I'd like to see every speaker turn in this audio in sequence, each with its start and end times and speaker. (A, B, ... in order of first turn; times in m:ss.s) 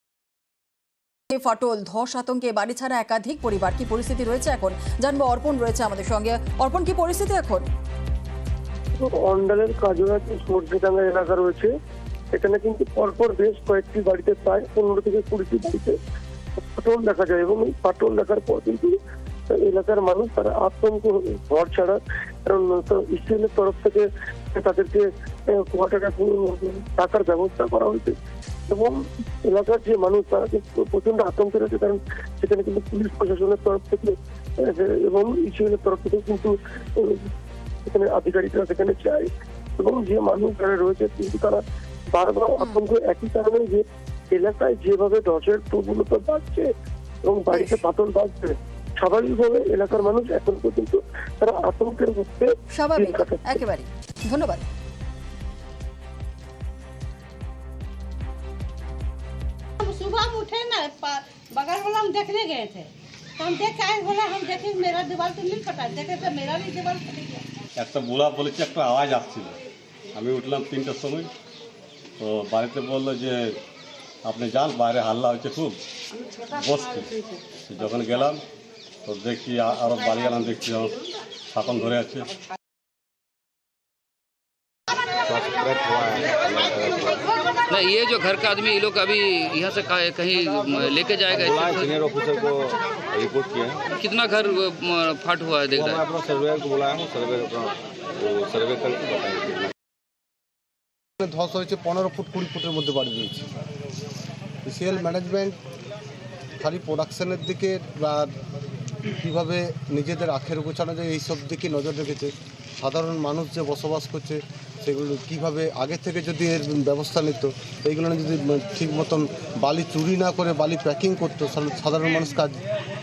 0:01.3-0:07.7 A
0:09.0-0:11.7 B
0:12.3-0:16.0 B
0:16.8-0:19.0 B
0:19.5-0:28.1 B
0:28.7-0:37.2 B
0:37.9-0:41.6 B
0:42.1-0:46.7 B
0:47.2-0:53.6 B
0:52.7-0:54.7 A
0:59.8-1:07.4 C
1:07.8-1:09.5 D
1:10.1-1:11.3 D
1:12.2-1:13.6 D
1:14.2-1:15.8 D
1:16.5-1:18.4 D
1:19.0-1:21.0 D
1:21.5-1:22.3 D
1:25.2-1:27.4 E
1:27.7-1:31.9 F
1:30.7-1:33.9 E
1:34.0-1:36.0 F
1:35.7-1:39.7 E
1:41.2-1:43.5 G
1:44.6-1:45.6 G
1:46.6-1:48.3 G
1:49.0-2:02.6 G